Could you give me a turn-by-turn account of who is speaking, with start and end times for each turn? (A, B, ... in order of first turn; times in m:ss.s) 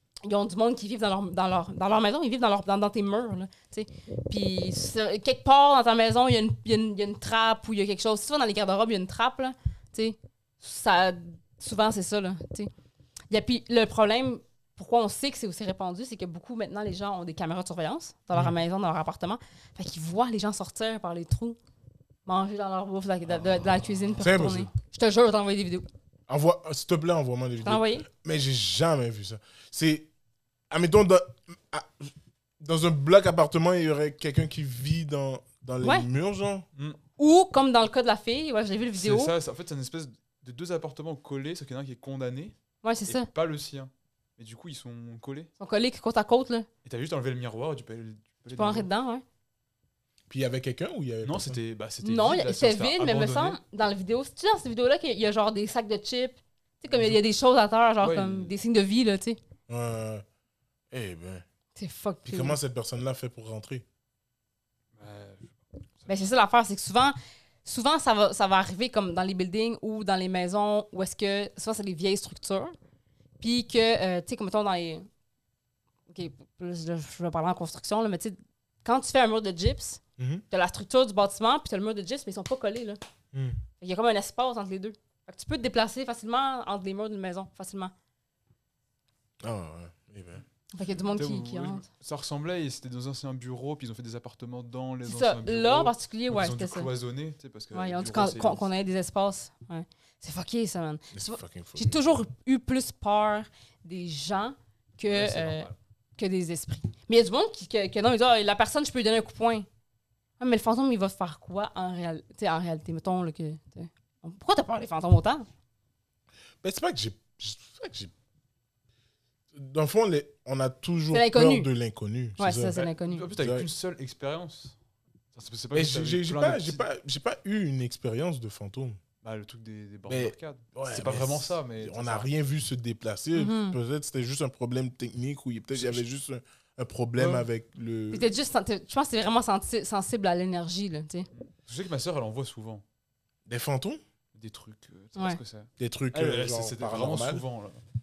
0:00.2-0:12.7 A
0:13.3-0:21.6 A
0:22.3-0:25.8 A
0:23.3-0:24.7 B
0:24.2-0:24.7 C
0:26.3-0:30.1 C
0:27.6-0:28.1 A
0:30.7-0:36.6 C
0:37.2-0:39.3 A
0:38.9-0:45.5 B
0:42.8-0:43.3 A
0:45.6-0:46.7 A
0:46.8-0:48.9 B
0:48.6-0:49.2 A
0:50.3-0:51.6 C
0:51.2-0:53.6 B
0:52.0-0:59.4 A
0:56.9-0:57.2 B
0:58.0-0:58.5 B
0:59.7-1:00.2 C
1:00.9-1:01.4 C
1:01.8-1:02.6 A
1:02.3-1:03.8 C
1:05.0-1:06.1 B
1:06.1-1:12.7 A
1:13.4-1:15.1 A
1:16.1-1:23.0 A
1:20.2-1:20.4 C
1:23.3-1:23.6 C
1:23.8-1:27.9 A
1:29.4-1:30.4 C
1:30.7-1:31.8 A
1:31.0-1:38.7 B
1:35.0-1:36.9 A
1:37.7-1:49.6 A
1:41.1-1:42.1 C
1:45.1-1:45.8 B
1:50.4-1:55.4 A
1:56.6-1:58.1 C
1:59.5-2:03.7 C
2:01.1-2:01.7 A
2:02.4-2:03.3 A
2:03.0-2:04.8 B
2:05.3-2:06.8 B
2:05.7-2:09.0 C
2:09.2-2:12.3 B
2:10.1-2:18.3 C
2:13.3-2:13.8 A
2:15.7-2:16.0 B
2:17.2-2:17.5 B
2:18.1-2:21.3 A
2:21.4-2:22.8 B
2:23.5-2:24.0 C
2:24.4-2:27.8 B
2:25.8-2:27.4 C